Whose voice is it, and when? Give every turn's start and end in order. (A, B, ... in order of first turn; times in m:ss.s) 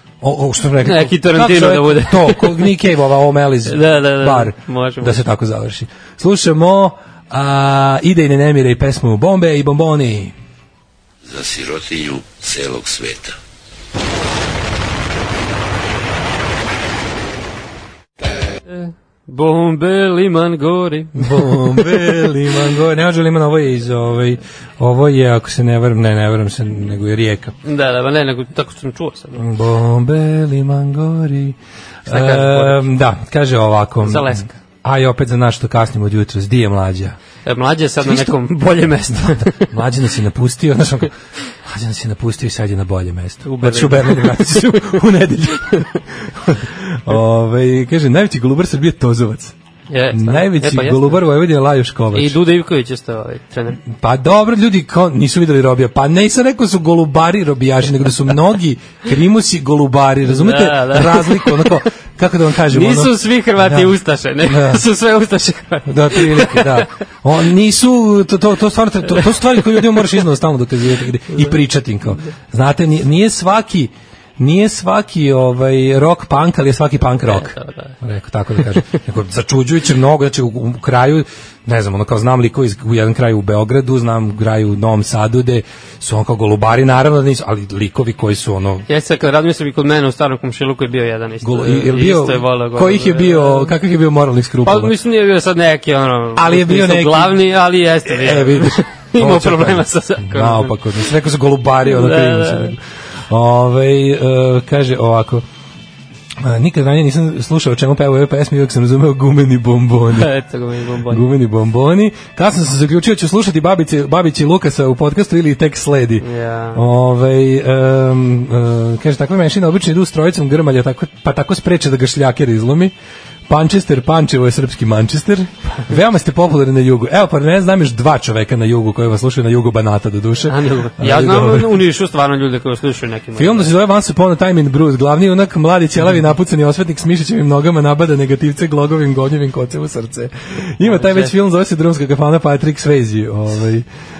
0:00.2-0:10.3 A
0:00.8-0:02.7 B
0:03.7-0:05.2 B
0:11.3-0:13.3 C
0:18.7-0:22.1 B
0:21.2-0:27.6 A
0:27.6-0:29.4 B
0:29.4-0:37.2 A
0:32.1-0:32.9 B
0:34.0-0:34.6 B
0:37.5-0:39.7 B
0:38.0-0:38.4 A
0:39.1-0:41.1 A
0:41.6-0:49.6 A
0:43.4-0:45.0 B
0:49.9-0:51.2 B
0:50.1-0:52.4 A
0:52.1-0:53.8 B
0:53.9-1:04.8 A
1:00.3-1:01.8 B
1:02.7-1:06.9 B
1:05.9-1:28.8 A
1:11.3-1:11.6 B
1:17.3-1:18.0 B
1:28.9-1:33.7 B
1:31.4-1:34.9 A
1:34.6-1:40.8 B
1:36.4-1:37.4 A
1:38.0-1:45.4 A
1:41.8-1:42.7 B
1:46.4-1:50.3 A
1:50.1-1:51.2 B
1:51.1-2:02.9 A
1:56.2-1:56.8 B
2:03.5-2:11.8 A
2:10.5-2:13.7 B
2:13.4-2:23.9 A
2:20.8-2:21.3 B